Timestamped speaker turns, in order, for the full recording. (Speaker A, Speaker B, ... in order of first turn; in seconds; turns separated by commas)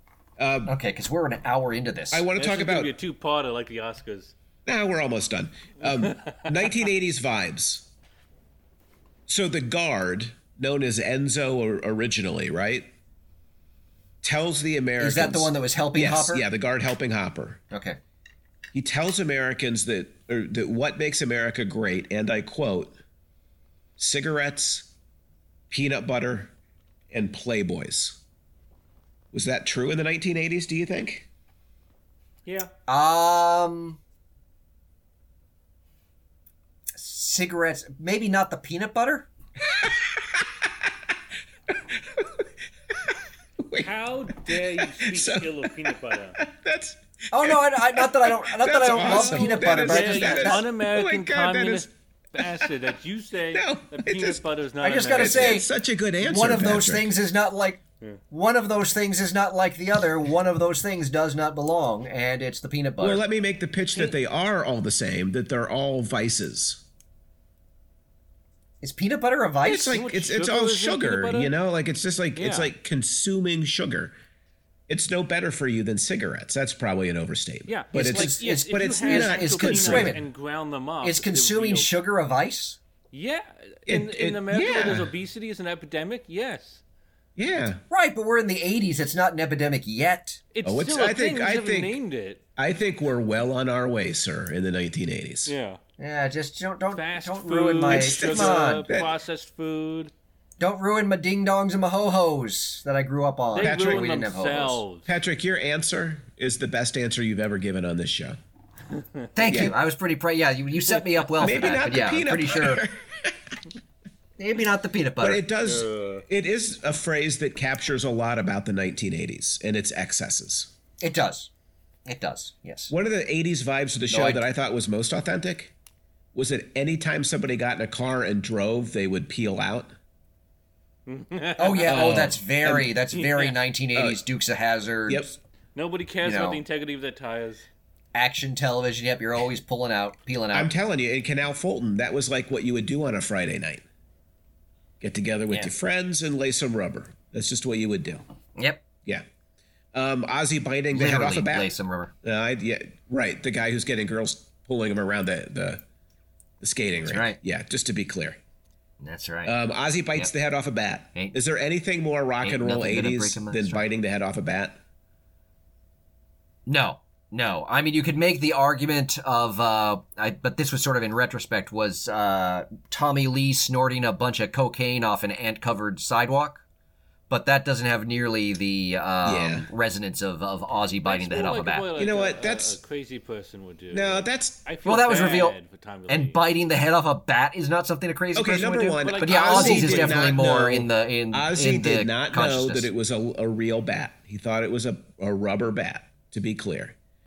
Speaker A: 0.4-0.7, Speaker B: 0.7-2.2, Speaker A: 2.1-2.9, Speaker C: 2.3-4.3, Speaker A: 4.7-7.9, Speaker C: 5.9-6.8, Speaker A: 9.3-12.9, Speaker A: 14.2-17.6, Speaker B: 15.0-16.4, Speaker B: 17.7-18.0, Speaker A: 18.7-22.9, Speaker A: 24.0-24.9, Speaker A: 25.7-26.5, Speaker A: 27.1-28.2, Speaker A: 29.3-31.3, Speaker C: 32.4-32.7, Speaker B: 32.9-34.0, Speaker B: 36.9-39.3, Speaker A: 39.7-40.5, Speaker A: 41.7-42.5, Speaker A: 43.1-51.9, Speaker C: 43.8-46.4, Speaker B: 47.3-50.6, Speaker C: 49.0-55.6, Speaker A: 52.4-52.7, Speaker A: 53.5-54.4, Speaker B: 54.8-55.7, Speaker A: 55.1-57.1, Speaker B: 56.2-63.2, Speaker A: 63.0-66.8, Speaker B: 68.8-70.0, Speaker A: 69.6-74.1, Speaker C: 69.9-71.5, Speaker C: 72.3-72.7, Speaker A: 74.9-80.2, Speaker C: 77.7-81.9, Speaker B: 77.9-80.2, Speaker B: 81.0-82.8, Speaker C: 83.1-86.8, Speaker A: 83.9-85.1, Speaker A: 87.4-87.8, Speaker B: 87.9-90.4, Speaker C: 90.5-92.4, Speaker A: 90.6-92.0, Speaker A: 92.6-95.5, Speaker C: 95.5-95.8, Speaker B: 96.0-98.9, Speaker C: 96.9-100.1, Speaker A: 97.9-99.1, Speaker B: 100.6-104.8, Speaker C: 103.5-105.1, Speaker A: 103.6-104.1, Speaker A: 105.0-108.4, Speaker B: 109.3-112.8, Speaker A: 109.4-109.7, Speaker A: 111.4-113.5, Speaker B: 114.4-115.4, Speaker A: 115.2-120.7, Speaker C: 115.6-116.2, Speaker B: 121.0-121.5, Speaker B: 122.0-122.9, Speaker A: 122.9-125.7, Speaker B: 124.1-124.4, Speaker A: 126.3-129.9, Speaker C: 131.1-132.2, Speaker B: 131.6-135.3, Speaker A: 131.8-132.9, Speaker C: 133.1-133.6, Speaker A: 133.9-134.2, Speaker A: 135.1-135.3, Speaker C: 135.7-137.7, Speaker B: 136.2-136.6, Speaker B: 138.1-140.7, Speaker A: 140.5-143.8, Speaker A: 145.0-148.2, Speaker B: 148.6-148.8, Speaker A: 149.9-151.7, Speaker B: 150.9-152.1, Speaker A: 152.2-155.8, Speaker A: 156.6-158.4, Speaker B: 157.1-157.4, Speaker B: 159.0-159.5, Speaker A: 159.4-164.8, Speaker B: 162.4-163.8, Speaker B: 166.7-176.6, Speaker B: 177.3-181.9, Speaker A: 179.2-179.7, Speaker C: 181.0-186.4, Speaker A: 182.0-182.8, Speaker A: 183.9-184.6, Speaker B: 184.8-185.6, Speaker B: 186.1-192.9, Speaker A: 188.3-196.9, Speaker C: 189.0-190.4